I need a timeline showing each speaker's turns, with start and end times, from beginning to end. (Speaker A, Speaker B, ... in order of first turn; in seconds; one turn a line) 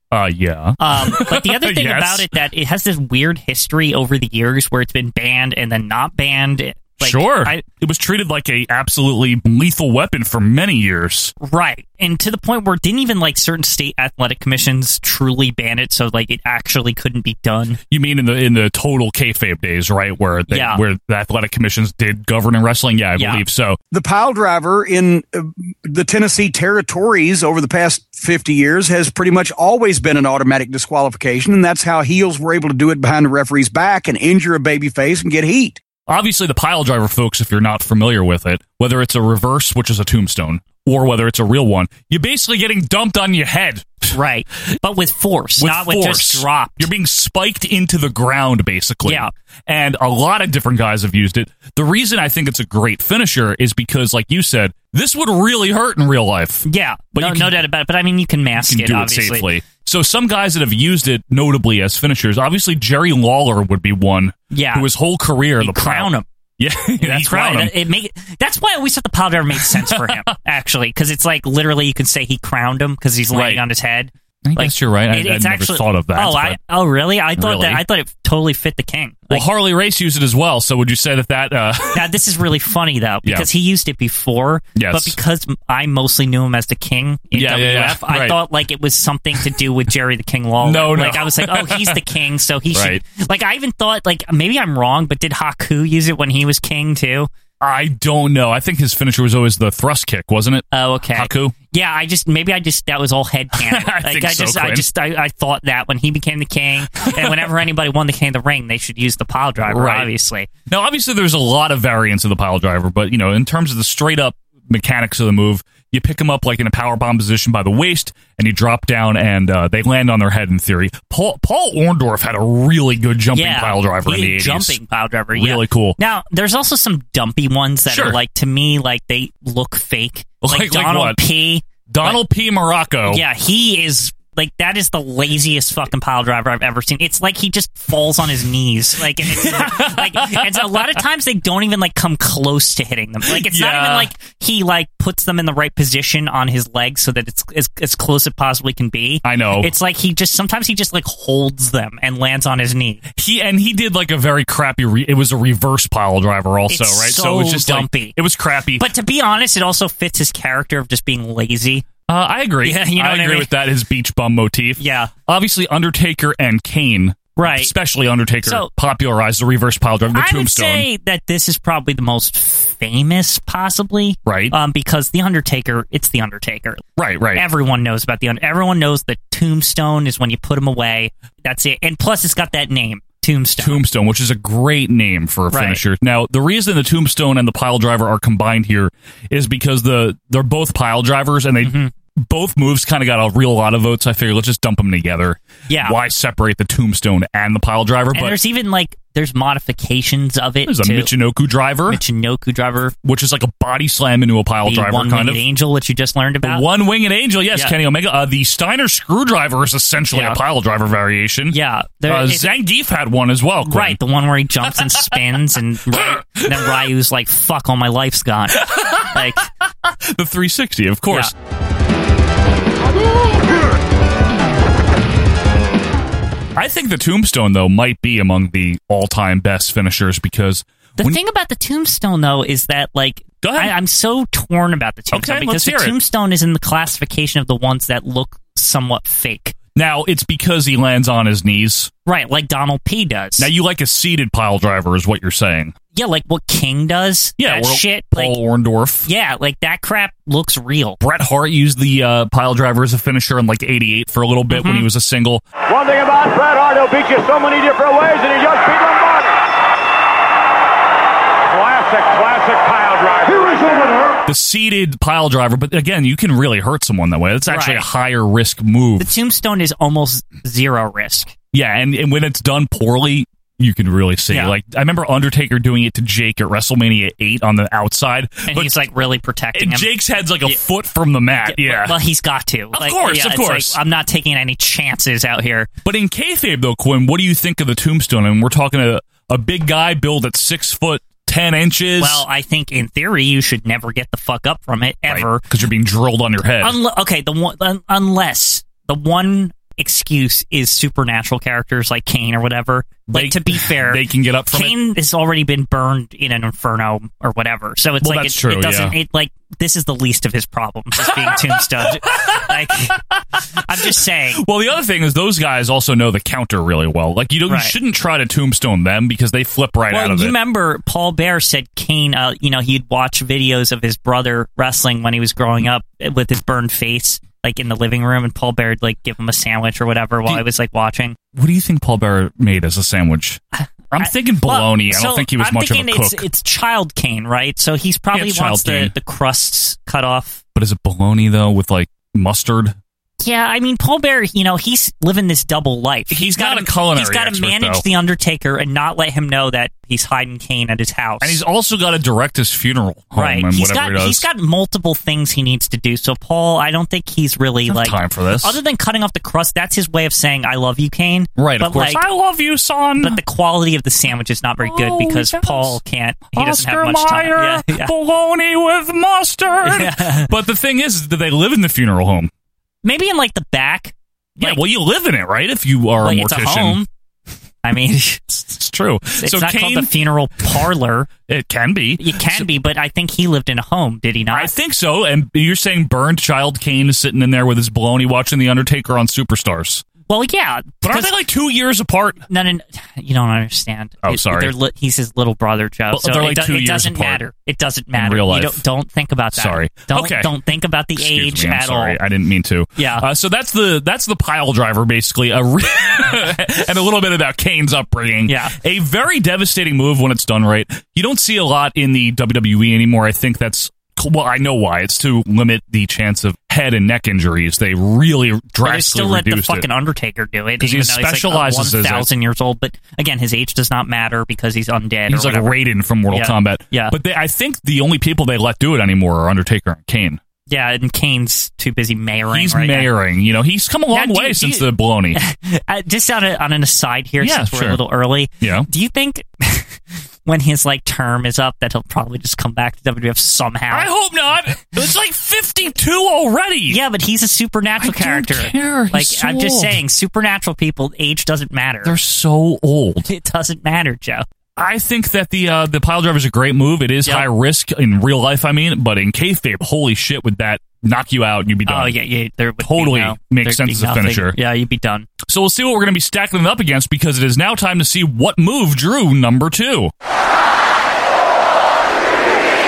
Speaker A: 0.1-2.3
Speaker B: 0.8-7.6
Speaker A: 7.0-11.3
Speaker B: 11.4-17.8
Speaker A: 17.9-23.8
Speaker B: 20.5-20.8
Speaker B: 23.2-23.4
Speaker C: 23.9-35.8
Speaker A: 36.1-44.1
Speaker B: 44.1-46.9
Speaker A: 45.6-57.6
Speaker B: 49.0-49.3
Speaker B: 56.6-59.5
Speaker A: 58.6-67.8
Speaker B: 64.5-64.9
Speaker B: 65.6-66.3
Speaker B: 67.0-79.5
Speaker A: 69.5-70.2
Speaker A: 73.3-73.6
Speaker A: 74.5-76.6
Speaker A: 77.4-77.8
Speaker A: 79.3-82.1
Speaker B: 81.9-97.3
Speaker A: 84.8-85.2
Speaker A: 87.3-88.4
Speaker A: 90.6-92.0
Speaker A: 92.7-93.0
Speaker A: 97.6-101.5
Speaker B: 100.7-110.5
Speaker A: 103.6-104.9
Speaker A: 107.0-107.5
Speaker A: 109.7-110.1
Speaker A: 110.7-124.8
Speaker B: 123.3-132.2
Speaker A: 125.3-126.0
Speaker A: 127.9-128.2
Speaker A: 130.4-131.2
Speaker A: 131.9-133.2
Speaker B: 133.1-153.0
Speaker A: 139.2-141.0
Speaker A: 143.2-144.1
Speaker A: 149.2-149.7
Speaker A: 153.1-158.9
Speaker B: 156.7-158.2
Speaker B: 158.8-161.9
Speaker A: 162.1-170.9
Speaker B: 162.6-163.5
Speaker B: 164.8-165.1
Speaker B: 167.4-167.7
Speaker B: 168.4-168.7
Speaker B: 170.1-183.8
Speaker A: 174.2-174.6
Speaker A: 177.0-177.4
Speaker A: 183.6-198.4
Speaker B: 185.5-185.8
Speaker B: 191.6-191.9
Speaker B: 195.7-196.0
Speaker B: 198.1-201.1
Speaker A: 200.7-202.0
Speaker B: 201.9-202.9
Speaker A: 203.0-205.4
Speaker B: 204.6-206.7
Speaker A: 206.4-214.0
Speaker B: 210.1-210.4
Speaker B: 211.5-212.6
Speaker B: 213.7-219.5
Speaker A: 214.7-215.1
Speaker A: 215.9-216.7
Speaker A: 218.6-221.3
Speaker A: 226.6-231.2
Speaker B: 231.0-239.6
Speaker A: 233.4-233.7
Speaker A: 235.1-235.9
Speaker A: 239.8-241.9
Speaker B: 242.1-243.5
Speaker A: 243.4-245.8
Speaker B: 245.9-248.4
Speaker A: 247.4-249.1
Speaker B: 249.1-251.0
Speaker A: 251.0-255.4
Speaker B: 254.5-254.9
Speaker D: 255.7-259.3
Speaker D: 261.6-263.5
Speaker A: 264.2-269.1
Speaker B: 267.5-267.9
Speaker B: 269.0-271.3
Speaker A: 271.5-278.8
Speaker B: 274.3-274.6
Speaker B: 278.5-280.6
Speaker A: 279.5-282.0
Speaker B: 281.4-285.7
Speaker A: 282.7-283.8
Speaker A: 285.9-292.3
Speaker B: 292.0-295.4
Speaker A: 295.1-296.8
Speaker B: 296.6-313.0
Speaker A: 303.1-304.8
Speaker A: 308.0-309.0
Speaker A: 311.0-312.9
Speaker B: 313.6-314.4
Speaker A: 314.4-320.4
Speaker B: 317.5-317.8
Speaker B: 319.9-331.2
Speaker A: 331.4-333.4
Speaker B: 333.6-340.4
Speaker A: 333.9-336.2
Speaker A: 338.1-338.9
Speaker A: 340.6-342.8
Speaker B: 343.2-351.4
Speaker A: 346.1-347.8
Speaker A: 351.2-354.3
Speaker B: 353.1-362.0
Speaker A: 357.7-358.6
Speaker A: 361.4-363.2
Speaker B: 363.0-367.9
Speaker A: 364.6-365.8
Speaker A: 366.3-372.3
Speaker B: 369.6-370.3
Speaker B: 372.8-374.6
Speaker A: 374.4-376.8
Speaker B: 376.0-376.9
Speaker B: 377.6-378.4
Speaker A: 378.4-379.9
Speaker B: 379.2-381.1
Speaker A: 381.3-382.5
Speaker B: 382.0-384.5
Speaker A: 384.3-389.9
Speaker B: 390.1-391.1
Speaker A: 390.8-392.2
Speaker B: 392.3-402.0
Speaker A: 394.0-394.5
Speaker A: 395.9-397.2
Speaker A: 397.9-398.6
Speaker A: 399.3-400.3
Speaker A: 400.9-419.7
Speaker B: 402.8-403.1
Speaker B: 408.3-408.6
Speaker B: 418.6-425.6
Speaker A: 420.6-422.1
Speaker A: 425.1-430.2
Speaker B: 426.1-427.0
Speaker B: 430.5-432.9
Speaker A: 432.3-435.2
Speaker B: 433.9-443.9
Speaker A: 437.2-437.8
Speaker A: 438.4-438.7
Speaker A: 443.7-446.8
Speaker B: 446.7-452.0
Speaker A: 447.8-449.8
Speaker A: 451.8-453.1
Speaker B: 453.1-454.2
Speaker A: 454.6-462.0
Speaker B: 461.7-465.1
Speaker A: 462.6-464.4
Speaker A: 465.2-469.9